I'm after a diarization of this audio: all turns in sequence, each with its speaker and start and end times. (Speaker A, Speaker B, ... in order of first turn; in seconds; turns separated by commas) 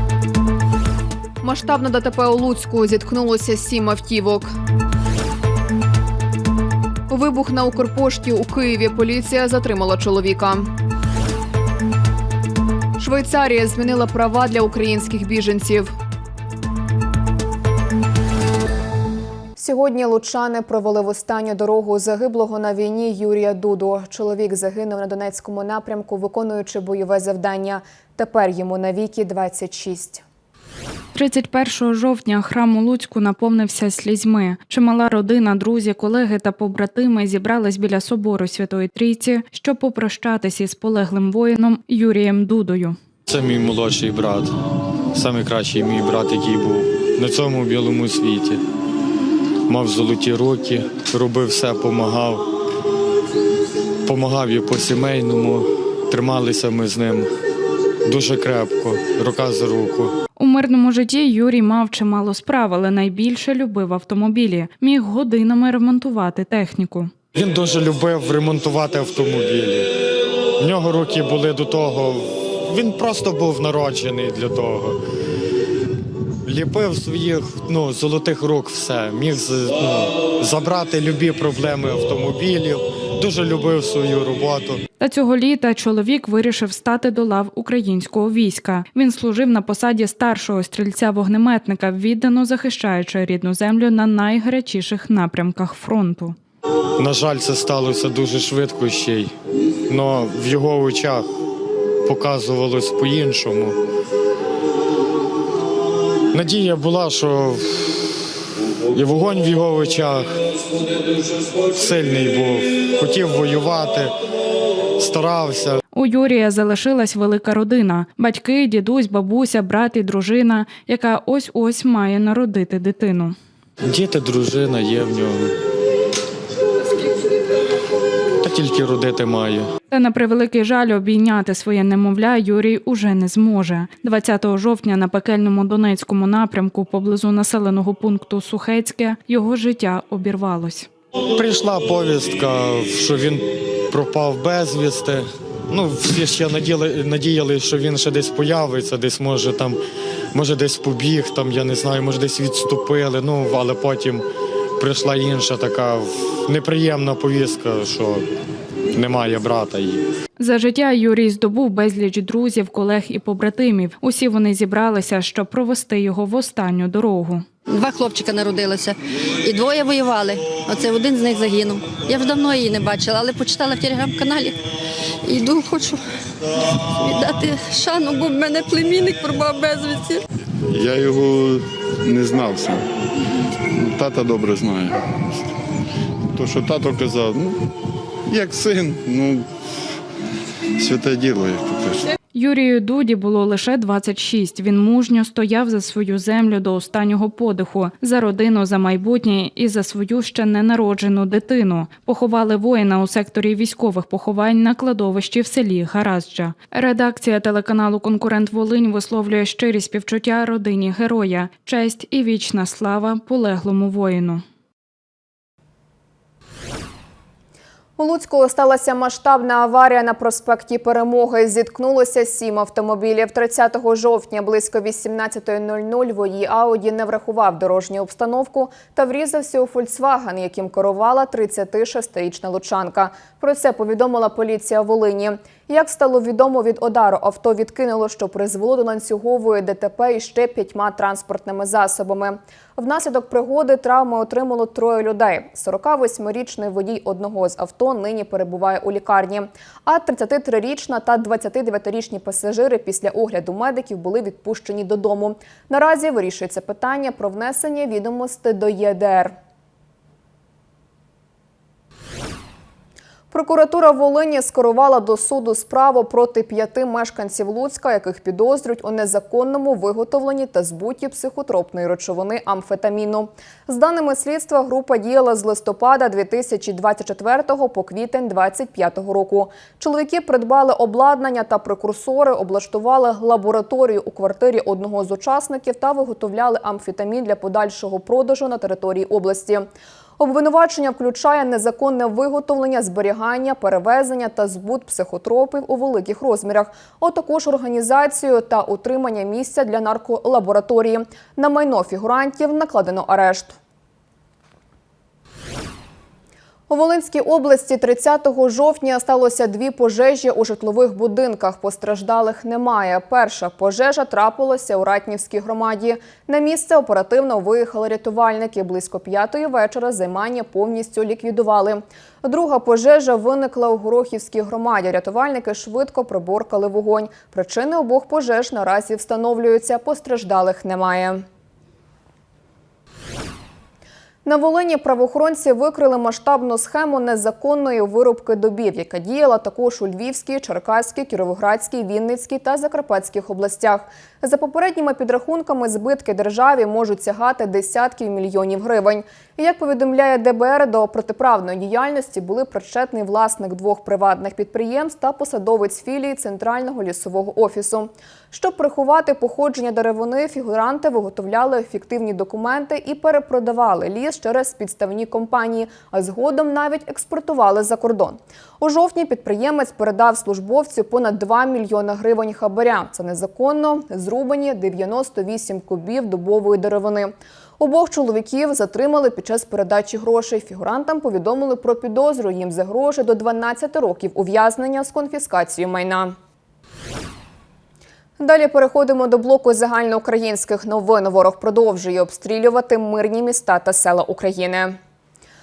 Speaker A: 1.4-4.5, Speaker A: 7.1-10.7, Speaker A: 13.0-15.9, Speaker A: 19.6-30.2, Speaker B: 31.1-43.0, Speaker C: 43.3-44.5, Speaker C: 45.1-48.6, Speaker C: 49.7-52.5, Speaker C: 54.0-57.3, Speaker C: 58.0-60.1, Speaker B: 60.4-67.1, Speaker C: 67.3-69.9, Speaker C: 70.6-75.0, Speaker C: 76.4-84.8, Speaker B: 85.0-96.3, Speaker C: 97.0-99.3, Speaker C: 99.9-101.3, Speaker C: 102.0-103.8, Speaker C: 106.3-108.2, Speaker C: 108.9-110.3, Speaker C: 111.3-114.1, Speaker C: 115.0-115.8, Speaker B: 115.9-123.3, Speaker C: 123.9-125.5, Speaker C: 128.4-129.7, Speaker B: 129.9-140.9, Speaker C: 141.3-149.8, Speaker C: 150.3-154.2, Speaker C: 154.8-158.2, Speaker C: 158.9-160.0, Speaker B: 160.4-167.4, Speaker D: 167.7-174.6, Speaker D: 175.2-176.0, Speaker D: 176.8-180.2, Speaker E: 180.7-182.8, Speaker E: 183.7-185.4, Speaker E: 186.3-187.7, Speaker E: 188.3-189.4, Speaker E: 190.8-192.1, Speaker B: 192.3-214.4, Speaker A: 218.0-259.3, Speaker A: 263.3-289.6, Speaker A: 290.2-303.5, Speaker A: 306.7-331.2, Speaker A: 334.2-386.1, Speaker A: 388.2-394.8